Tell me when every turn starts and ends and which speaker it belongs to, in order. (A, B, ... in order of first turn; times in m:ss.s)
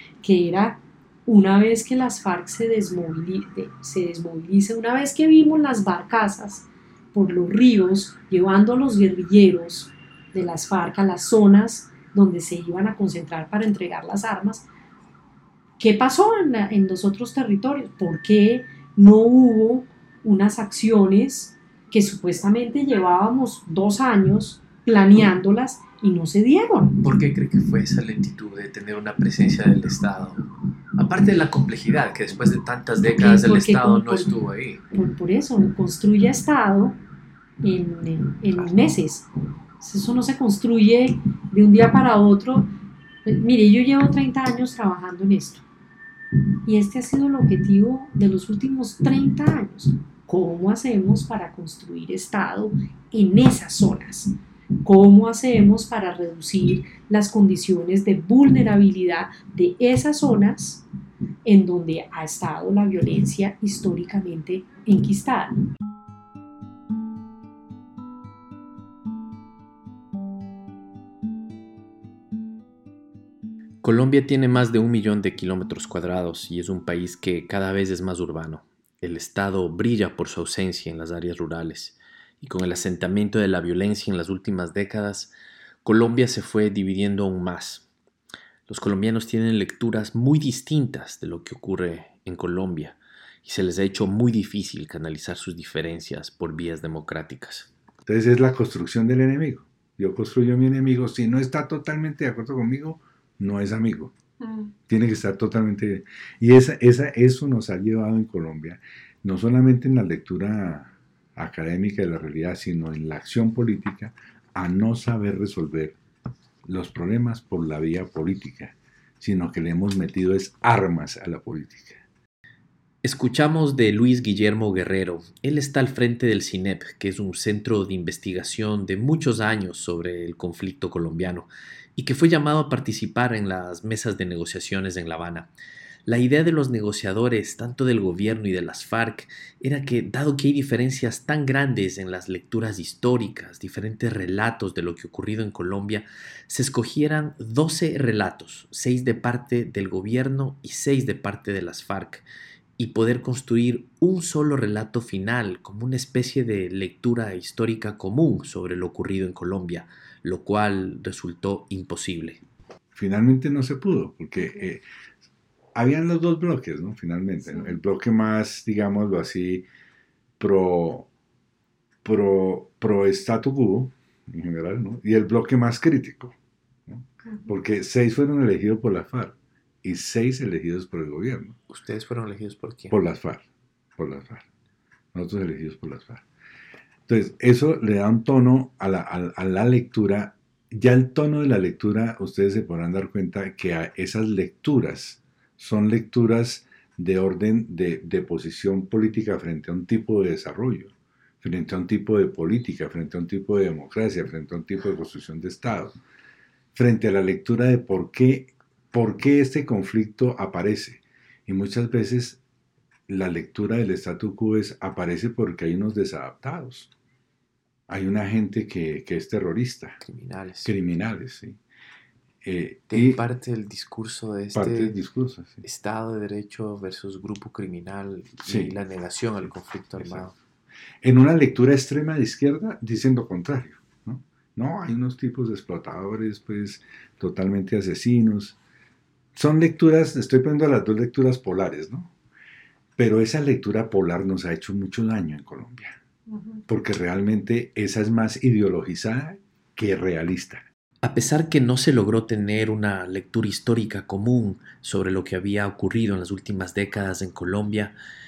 0:00.2-0:14.6 A
0:15.8-0:27.0 A
0:27.0-0:34.8 B
0:33.2-0:34.3 A
0:34.9-0:37.0 A
0:37.6-0:39.2 A
0:39.8-0:42.7 A
0:43.2-0:45.6 A
0:46.6-0:54.3 A
0:54.8-1:00.8 A
1:01.4-1:05.5 A
1:13.8-1:27.8 B
1:28.7-1:37.7 B
1:38.0-1:44.1 C
1:44.9-1:56.0 C
1:56.6-2:02.0 C
2:03.0-2:15.5 B
2:16.0-2:32.2 B
2:32.8-2:42.4 B
2:42.9-2:44.8 C
2:45.7-2:49.6 C
2:50.4-2:51.1 C
2:52.0-2:56.3 C
2:56.9-3:01.6 C
3:01.7-3:03.0 B
3:02.9-3:03.4 C
3:04.0-3:04.4 C
3:05.1-3:06.2 C
3:07.1-3:26.0 C
3:26.7-3:32.4 C
3:33.1-3:36.9 C
3:37.9-3:40.0 C
3:40.0-3:40.7 B
3:40.6-3:41.6 C
3:42.4-3:43.2 C
3:42.9-3:45.0 B
3:44.5-3:45.6 C
3:45.6-3:50.4 B
3:48.4-3:48.7 C
3:50.0-3:50.2 C
3:51.0-3:58.6 C
3:59.3-4:02.1 C
4:03.0-4:06.0 C
4:06.6-4:10.6 C
4:11.0-4:18.0 B